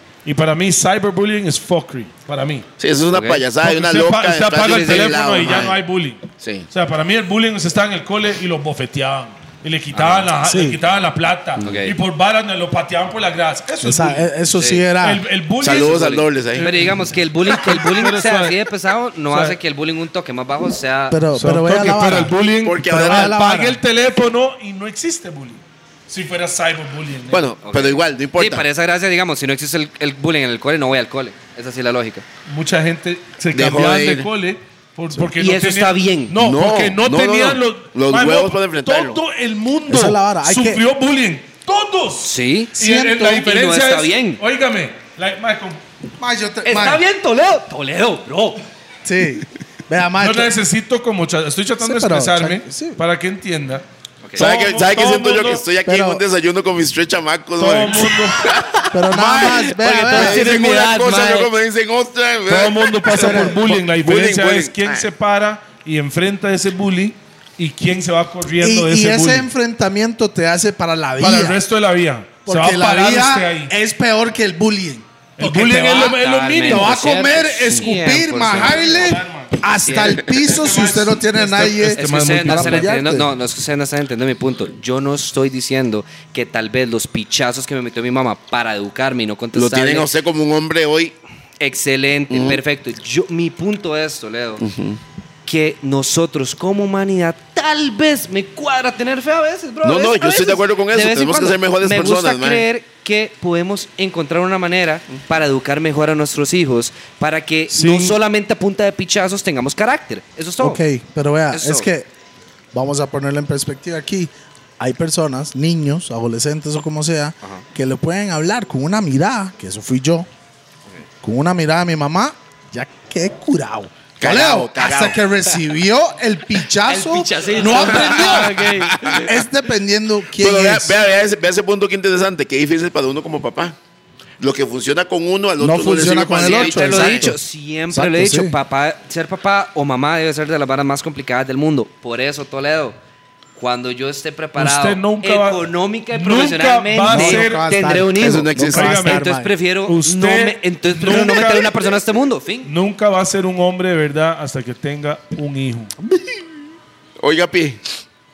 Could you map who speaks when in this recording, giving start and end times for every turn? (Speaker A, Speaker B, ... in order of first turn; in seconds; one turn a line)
Speaker A: 0.2-2.6
Speaker B: 2.8-5.8
Speaker C: 3.1-3.4
Speaker A: 3.6-14.3
Speaker B: 6.4-6.7
Speaker C: 9.9-10.3
Speaker D: 10.4-10.8
Speaker C: 11.6-11.9
Speaker D: 13.8-15.2
Speaker C: 14.5-14.8
Speaker A: 15.0-18.6
Speaker B: 15.6-16.7
Speaker C: 16.6-21.2
Speaker A: 19.3-19.6
Speaker D: 21.1-22.3
Speaker A: 21.4-27.5
Speaker B: 22.6-23.4
Speaker D: 22.9-23.8
Speaker B: 27.3-28.6
Speaker C: 27.6-32.2
Speaker A: 32.5-45.8
Speaker B: 33.5-34.3
Speaker C: 35.3-36.4
Speaker B: 36.4-39.2
Speaker D: 39.9-40.8
Speaker C: 42.2-44.4
Speaker D: 42.8-43.4
Speaker D: 46.2-47.0
Speaker C: 46.6-48.6
Speaker D: 49.0-50.5
Speaker A: 50.2-53.8
Speaker D: 51.8-53.0
Speaker A: 54.4-55.6
Speaker B: 54.4-59.5
Speaker D: 55.8-56.2
Speaker A: 57.6-58.5
Speaker D: 58.9-60.5
Speaker C: 59.2-61.5
Speaker B: 60.1-65.1
Speaker A: 62.5-69.5
Speaker D: 63.1-63.6
Speaker D: 68.6-71.6
Speaker A: 71.2-73.7
Speaker D: 72.5-83.3
Speaker A: 75.4-77.0
Speaker C: 75.8-79.2
Speaker A: 78.5-82.9
Speaker C: 79.8-80.2
Speaker C: 82.0-90.1
Speaker B: 89.5-91.2
Speaker C: 91.6-94.6
Speaker B: 92.3-92.6
Speaker B: 94.6-95.0
Speaker C: 95.5-110.8
Speaker B: 99.8-102.7
Speaker A: 107.7-108.2
Speaker D: 110.6-112.1
Speaker C: 111.5-111.9
Speaker D: 112.7-120.3
Speaker D: 121.2-131.0
Speaker B: 124.2-125.2
Speaker C: 126.8-129.3
Speaker B: 127.6-129.3
Speaker B: 130.4-133.8
Speaker B: 134.4-137.3
Speaker D: 135.6-137.4
Speaker C: 136.4-142.9
Speaker D: 137.9-138.5
Speaker C: 143.6-152.7
Speaker A: 144.6-147.7
Speaker D: 147.1-149.5
Speaker B: 148.2-148.9
Speaker A: 148.7-149.3
Speaker A: 149.8-151.9
Speaker A: 152.6-155.9
Speaker B: 157.2-157.8